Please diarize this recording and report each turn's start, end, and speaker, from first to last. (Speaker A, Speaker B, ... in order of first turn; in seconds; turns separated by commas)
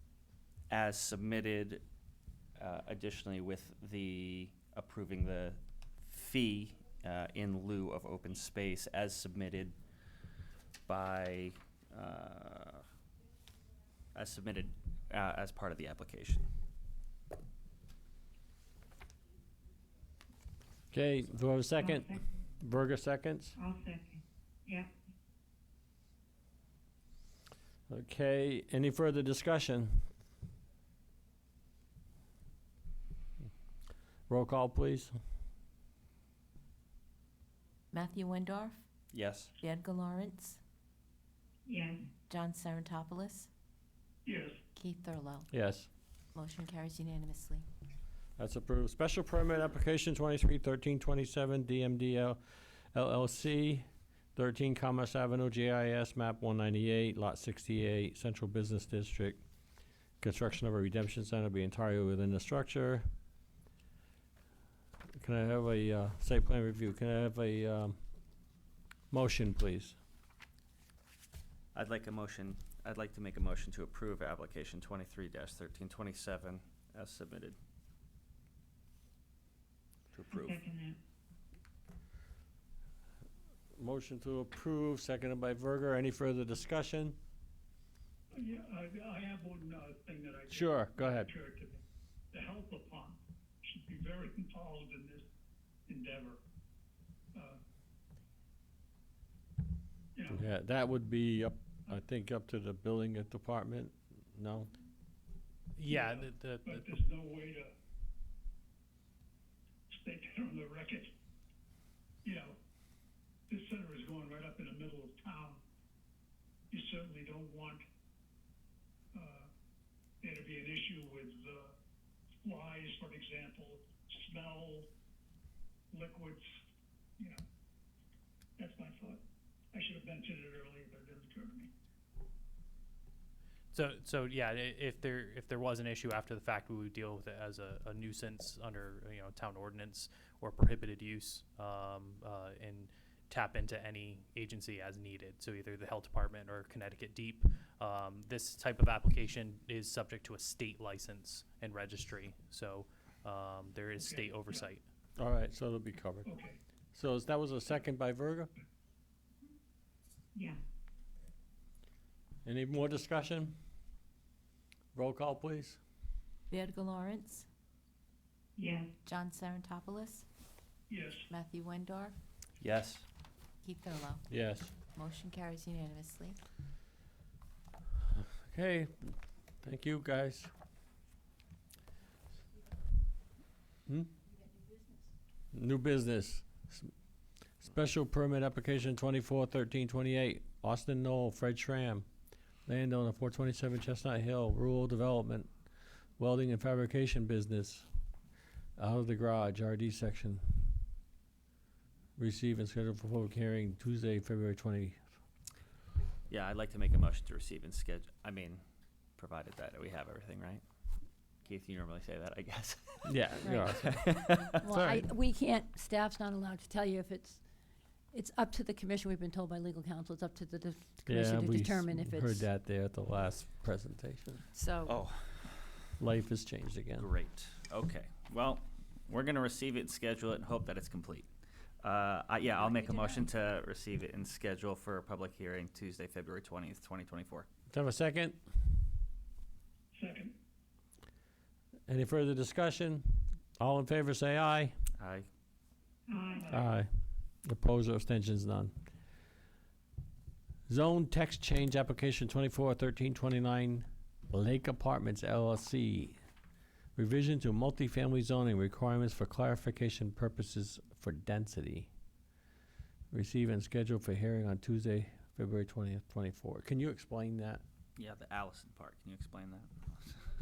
Speaker A: 0.7-1.8, Speaker A: 2.6-9.8, Speaker A: 10.9-12.8, Speaker A: 14.1-16.5, Speaker B: 20.9-23.6, Speaker C: 23.6-24.8, Speaker B: 27.9-30.1, Speaker B: 34.3-35.1, Speaker D: 37.9-38.8, Speaker A: 39.1-39.5, Speaker D: 39.6-40.6, Speaker D: 42.3-43.5, Speaker D: 44.7-45.5, Speaker B: 45.5-45.9, Speaker D: 46.3-47.6, Speaker B: 48.4-52.4, Speaker B: 52.9-59.4, Speaker B: 60.2-63.0, Speaker B: 65.2-67.9, Speaker B: 69.1-70.0, Speaker A: 71.7-77.6, Speaker A: 80.1-80.6, Speaker C: 80.5-80.9, Speaker B: 83.7-87.2, Speaker E: 88.4-91.8, Speaker B: 90.5-91.3, Speaker E: 92.3-93.1, Speaker E: 93.7-95.2, Speaker E: 95.9-96.3, Speaker E: 100.2-100.4, Speaker B: 100.3-104.7, Speaker F: 105.8-106.9, Speaker E: 105.9-107.7, Speaker E: 110.0-111.0, Speaker E: 112.2-112.5, Speaker E: 113.5-115.6, Speaker E: 116.7-117.8, Speaker E: 119.1-119.5, Speaker E: 120.2-121.7, Speaker E: 122.4-124.8, Speaker E: 125.9-126.4, Speaker E: 128.6-129.2, Speaker E: 129.7-131.7, Speaker F: 133.7-154.8, Speaker B: 155.2-156.2, Speaker B: 156.9-158.5, Speaker B: 162.4-163.6, Speaker B: 164.9-165.8, Speaker D: 166.5-167.5, Speaker C: 168.6-168.8, Speaker D: 169.0-170.2, Speaker E: 170.9-171.2, Speaker D: 171.3-172.2, Speaker A: 172.6-173.1, Speaker D: 173.6-174.2, Speaker B: 174.3-174.7, Speaker D: 174.8-176.4, Speaker B: 178.2-180.5, Speaker B: 183.9-184.1, Speaker B: 185.5-186.9, Speaker B: 187.6-192.1, Speaker B: 192.7-195.5, Speaker B: 196.2-197.9, Speaker B: 198.8-200.7, Speaker B: 202.2-205.0, Speaker A: 206.3-208.6, Speaker A: 209.2-210.6, Speaker A: 211.4-214.6, Speaker B: 213.0-215.0, Speaker G: 213.4-213.7, Speaker G: 214.6-217.4, Speaker G: 218.1-222.5, Speaker B: 221.1-224.4, Speaker D: 224.5-224.9, Speaker A: 224.8-225.8, Speaker B: 226.0-227.1, Speaker A: 227.0-231.3, Speaker A: 231.8-237.5, Speaker D: 232.6-233.2, Speaker B: 237.7-238.6, Speaker E: 240.0-240.2, Speaker B: 241.9-244.7, Speaker A: 245.0-245.2, Speaker C: 246.1-246.4, Speaker B: 246.5-246.9, Speaker B: 247.4-248.7, Speaker B: 250.7-256.2, Speaker B: 256.9-261.9, Speaker B: 263.1-267.6, Speaker A: 268.0-270.2